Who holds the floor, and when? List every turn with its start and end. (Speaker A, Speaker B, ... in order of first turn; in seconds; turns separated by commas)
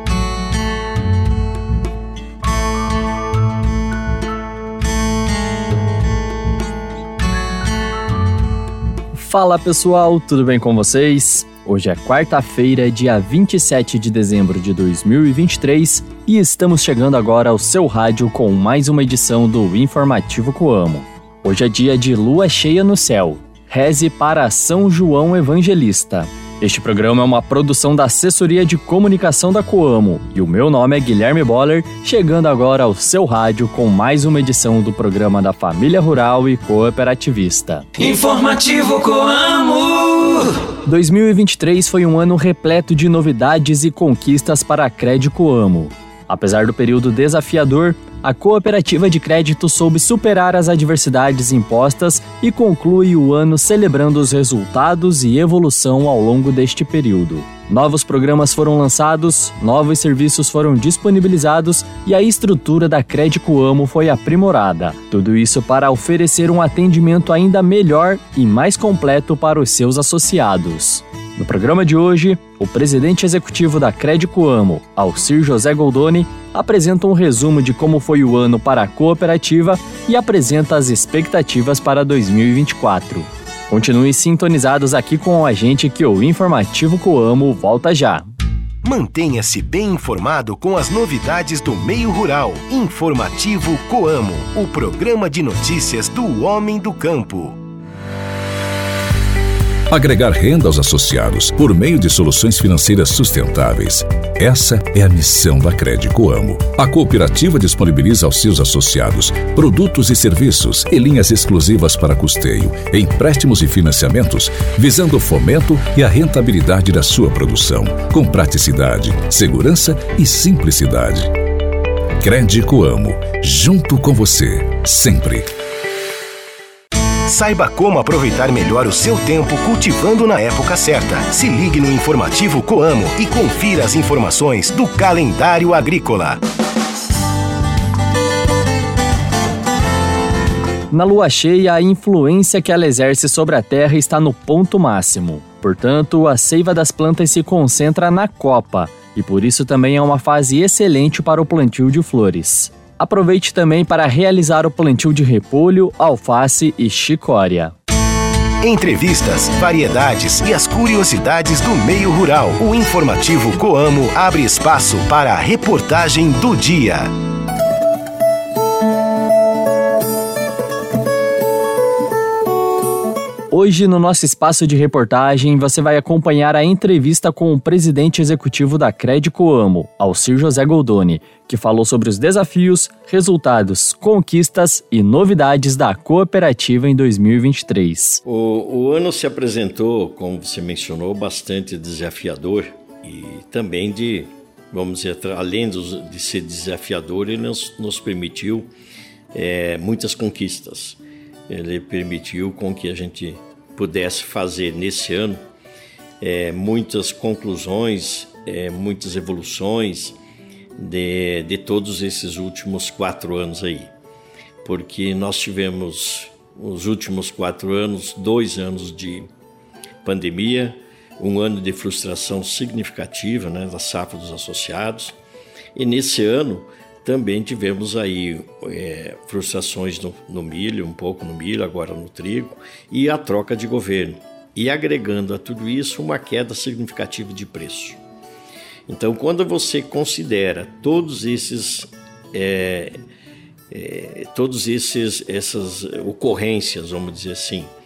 Speaker A: 9.1-39.7, Speaker B: 38.0-40.4, Speaker A: 40.8-88.3, Speaker C: 88.8-97.6, Speaker D: 99.9-121.3, Speaker D: 122.2-125.5, Speaker C: 127.3-136.4, Speaker A: 140.9-157.7, Speaker C: 158.6-167.1, Speaker A: 173.5-188.2, Speaker E: 188.2-198.7, Speaker E: 199.3-205.4, Speaker E: 206.2-210.2, Speaker E: 210.8-213.9, Speaker E: 214.6-219.3, Speaker E: 220.0-225.2, Speaker E: 225.8-238.0, Speaker E: 238.9-243.0, Speaker E: 243.7-247.7